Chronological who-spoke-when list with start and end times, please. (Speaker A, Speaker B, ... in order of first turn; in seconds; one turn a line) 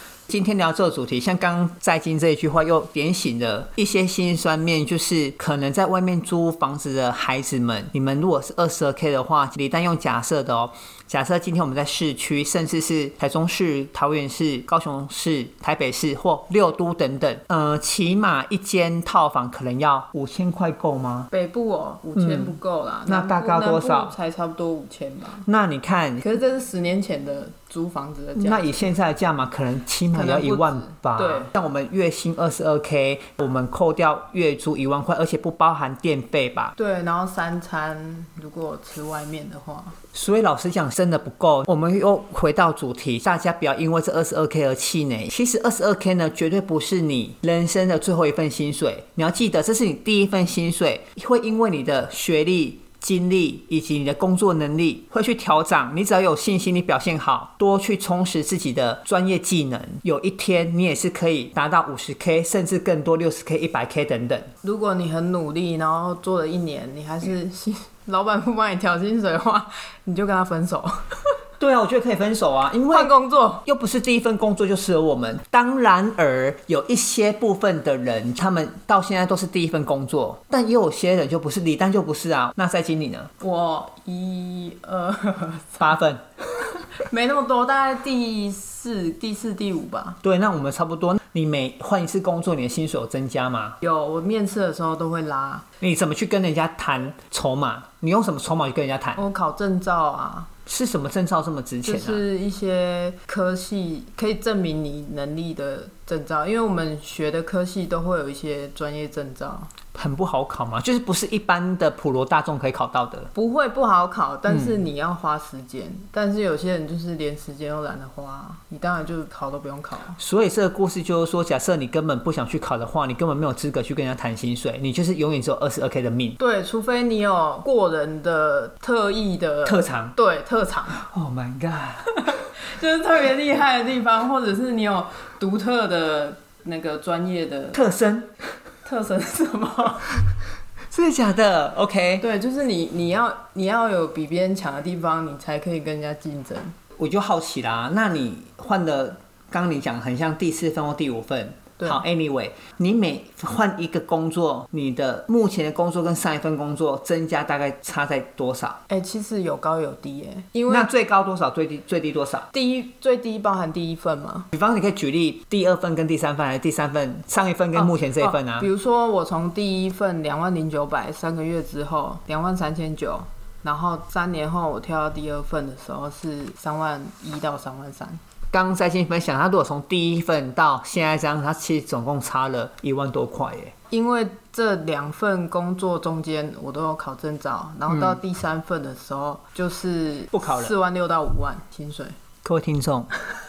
Speaker A: 0.3-21.3
Speaker B: 21.3-25.5
Speaker A: 22.2-24.1
Speaker A: 25.5-26.3
Speaker B: 26.2-28.9
Speaker A: 28.4-36.7
Speaker B: 30.1-31.5
Speaker B: 36.8-40.0
Speaker A: 40.1-64.5
Speaker B: 64.6-71.0
Speaker A: 71.6-73.1
Speaker B: 72.9-73.7
Speaker A: 73.7-83.3
Speaker B: 83.4-86.0
Speaker A: 85.8-86.2
Speaker B: 87.0-90.2
Speaker A: 90.2-93.8
Speaker B: 93.8-95.7
Speaker A: 95.8-99.2
Speaker B: 99.2-100.5
Speaker A: 100.7-102.2
Speaker B: 101.8-109.7
Speaker A: 109.9-113.3
Speaker B: 113.3-120.2
Speaker A: 114.5-114.8
Speaker A: 120.2-126.4
Speaker B: 126.4-131.0
Speaker A: 129.7-130.2
Speaker A: 130.9-132.1
Speaker B: 132.2-137.8
Speaker A: 137.8-138.3
Speaker B: 138.8-140.2
Speaker A: 140.9-142.2
Speaker B: 142.2-146.7
Speaker A: 147.0-158.8
Speaker B: 158.9-160.9
Speaker A: 160.7-162.5
Speaker B: 162.5-164.5
Speaker A: 164.5-168.7
Speaker B: 167.8-178.2
Speaker A: 178.5-183.7
Speaker B: 183.9-192.2
Speaker A: 187.9-188.2
Speaker A: 190.3-190.7
Speaker A: 192.4-193.1